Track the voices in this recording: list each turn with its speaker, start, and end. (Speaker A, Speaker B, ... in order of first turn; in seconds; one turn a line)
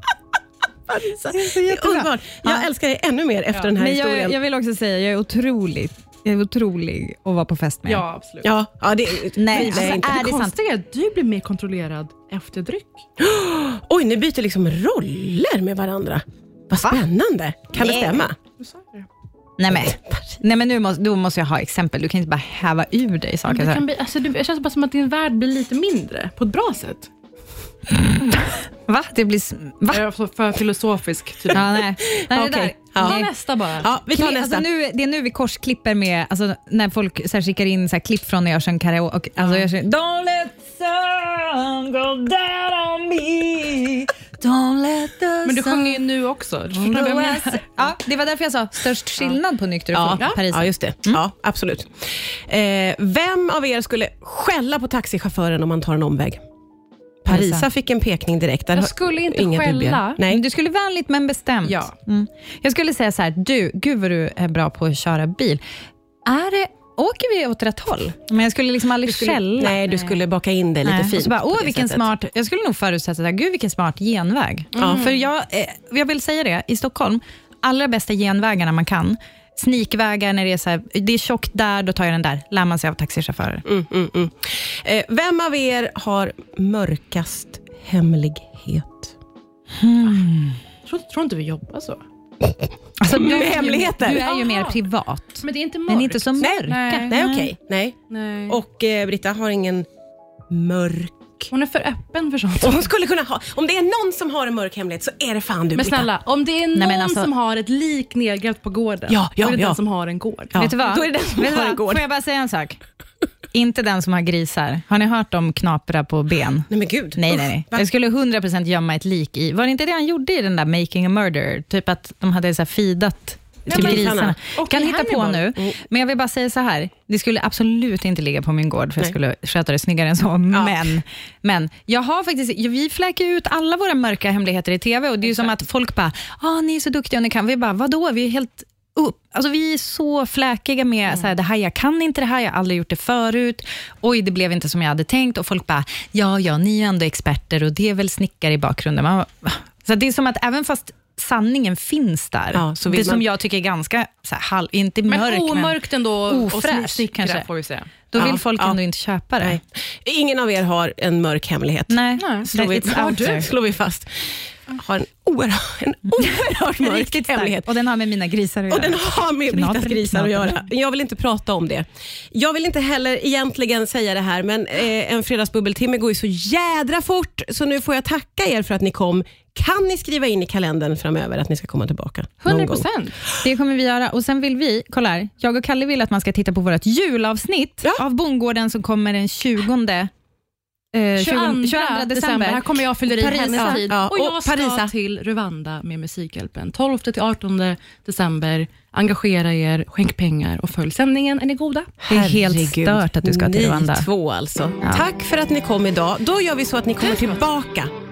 Speaker A: 0.9-4.3
Speaker B: 1.3-2.7
Speaker B: 3.7-8.0
Speaker C: 7.8-8.5
Speaker A: 8.4-10.2
Speaker B: 9.3-10.5
Speaker C: 9.5-13.1
Speaker A: 13.2-18.4
Speaker B: 17.8-18.2
Speaker C: 18.4-19.1
Speaker B: 19.6-23.8
Speaker C: 23.5-27.1
Speaker B: 27.9-30.0
Speaker C: 29.9-31.7
Speaker B: 31.5-33.3
Speaker A: 31.5-33.3
Speaker C: 32.9-33.9
Speaker A: 33.8-34.6
Speaker B: 34.1-46.0
Speaker C: 39.4-39.7
Speaker C: 45.4-47.9
Speaker B: 46.7-51.2
Speaker A: 49.9-56.4
Speaker A: 57.2-60.4
Speaker B: 57.3-57.7
Speaker C: 58.7-60.2
Speaker B: 60.2-65.6
Speaker C: 61.6-61.9
Speaker B: 66.2-69.8
Speaker A: 69.0-72.1
Speaker B: 70.8-83.6
Speaker C: 74.7-75.2
Speaker A: 74.8-75.0
Speaker A: 83.6-89.1
Speaker B: 89.8-90.6
Speaker C: 90.8-92.0
Speaker B: 93.0-97.5
Speaker A: 93.1-94.2
Speaker C: 93.1-94.8
Speaker C: 95.4-97.2
Speaker A: 96.4-99.9
Speaker C: 98.1-98.6
Speaker A: 100.5-101.5
Speaker C: 101.5-102.9
Speaker A: 102.6-106.1
Speaker C: 105.7-110.7
Speaker B: 106.7-107.3
Speaker A: 109.1-109.8
Speaker A: 110.5-112.0
Speaker B: 110.6-112.8
Speaker B: 113.5-157.4
Speaker A: 116.7-117.9
Speaker C: 123.7-125.4
Speaker A: 123.7-124.3
Speaker A: 130.5-130.9
Speaker C: 135.3-135.6
Speaker A: 152.5-153.2
Speaker C: 155.1-157.9
Speaker B: 158.1-159.6
Speaker A: 158.1-158.8
Speaker A: 159.4-167.7
Speaker B: 161.9-163.5
Speaker C: 162.2-162.5
Speaker B: 166.1-170.7
Speaker A: 168.7-182.8
Speaker C: 182.4-183.2
Speaker B: 183.4-190.1
Speaker B: 190.9-193.9
Speaker C: 191.2-202.0
Speaker A: 193.6-194.9
Speaker A: 202.0-207.9
Speaker B: 202.1-204.1
Speaker B: 204.8-205.1
Speaker C: 207.0-207.4